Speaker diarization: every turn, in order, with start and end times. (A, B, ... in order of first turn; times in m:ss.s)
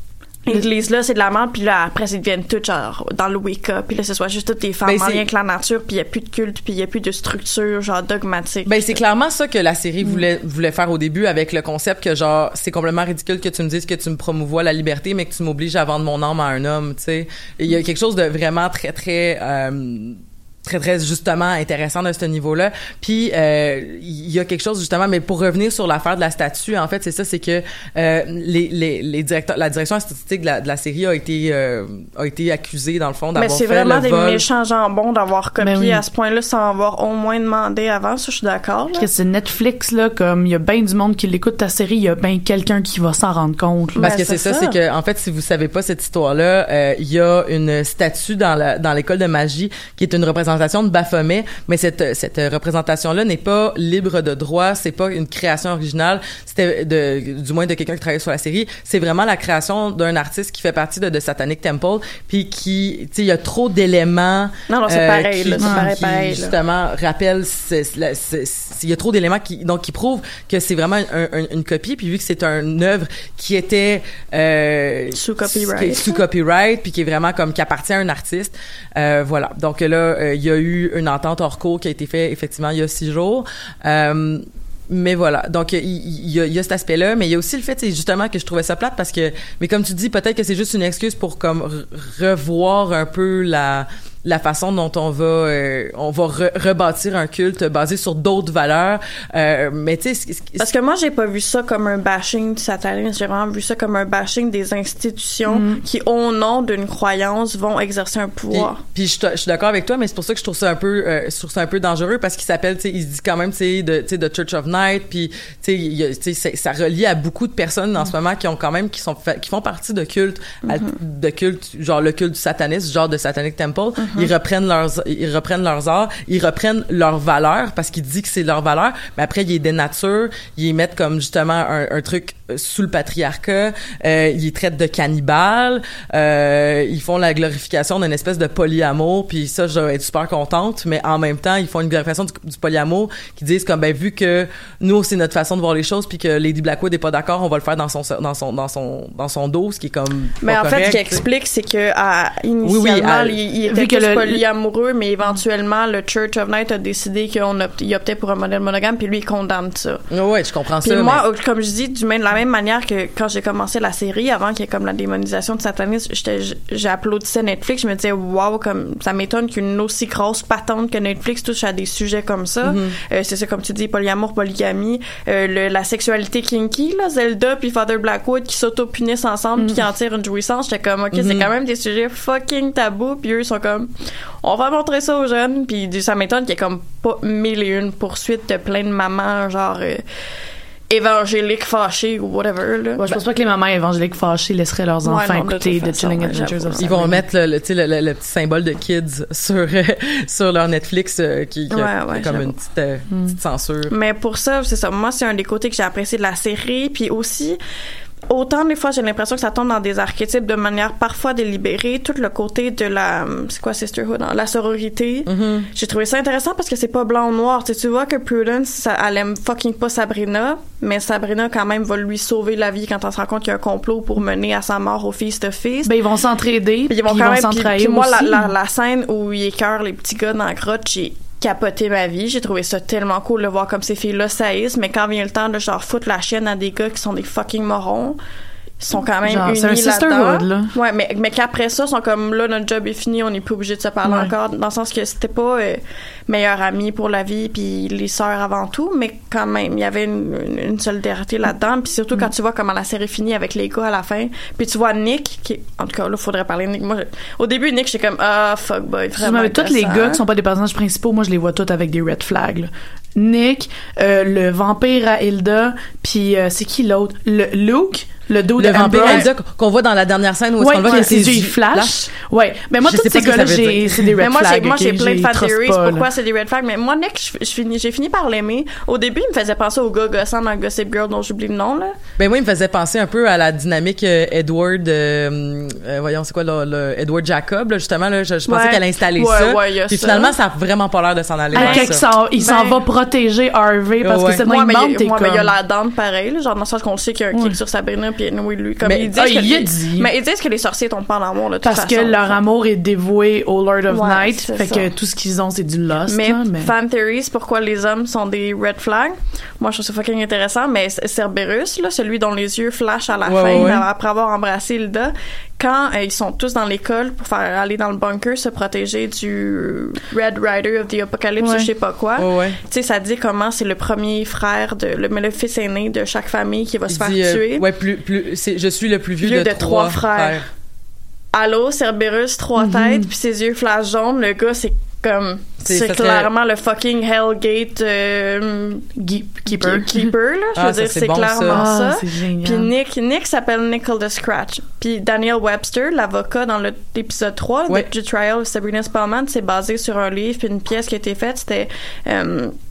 0:00.4-0:09.0 A
0:04.8-0:05.2 B
0:08.7-0:34.4 B
0:33.4-0:39.1 A
0:35.6-0:36.0 C
0:39.0-0:44.1 C
0:44.0-0:44.8 A
0:44.0-1:40.7 B
1:04.7-1:06.6 A
1:05.6-1:05.9 C
1:15.1-1:16.2 A
1:40.6-1:48.8 A
1:45.5-1:45.8 C
1:48.5-2:31.2 B
2:00.6-2:01.0 A
2:04.0-2:04.3 A
2:30.4-2:40.0 A
2:32.6-2:33.4 B
2:33.7-2:34.4 C
2:40.1-2:41.2 B
2:40.8-3:03.9 A
2:52.6-2:53.0 B
3:01.1-3:01.5 B
3:04.4-3:10.0 A
3:10.9-3:13.2 A
3:13.0-3:17.2 C
3:15.0-3:17.0 A
3:16.8-3:23.9 B
3:21.7-3:22.5 A
3:23.1-3:23.4 C
3:23.9-3:27.6 A
3:28.3-3:45.9 A
3:35.3-3:35.7 B
3:45.9-3:48.5 C
3:46.9-3:58.2 A
3:58.8-4:20.2 A
3:59.2-4:00.7 C
4:04.0-4:04.3 C
4:19.2-4:29.3 C
4:28.6-4:32.1 B
4:30.6-4:36.1 C
4:32.8-4:34.2 B
4:34.2-4:42.0 A
4:42.2-4:52.0 B
4:48.5-4:50.4 A
4:51.5-4:55.5 C
4:51.6-4:52.8 A
4:54.0-4:54.4 B
4:54.4-5:02.4 A
4:59.1-5:00.1 C
5:01.6-5:06.7 C
5:03.9-5:04.9 A
5:06.1-5:27.7 A
5:13.3-5:13.8 B
5:13.6-5:13.8 C
5:21.4-5:21.7 C
5:22.2-5:22.6 B
5:26.9-5:30.5 B
5:29.2-5:30.4 A
5:31.3-5:38.9 A
5:32.6-5:33.1 C
5:35.6-5:36.3 B
5:39.0-5:40.1 C
5:39.5-5:52.6 A
5:40.6-5:41.6 B
5:41.5-5:42.7 C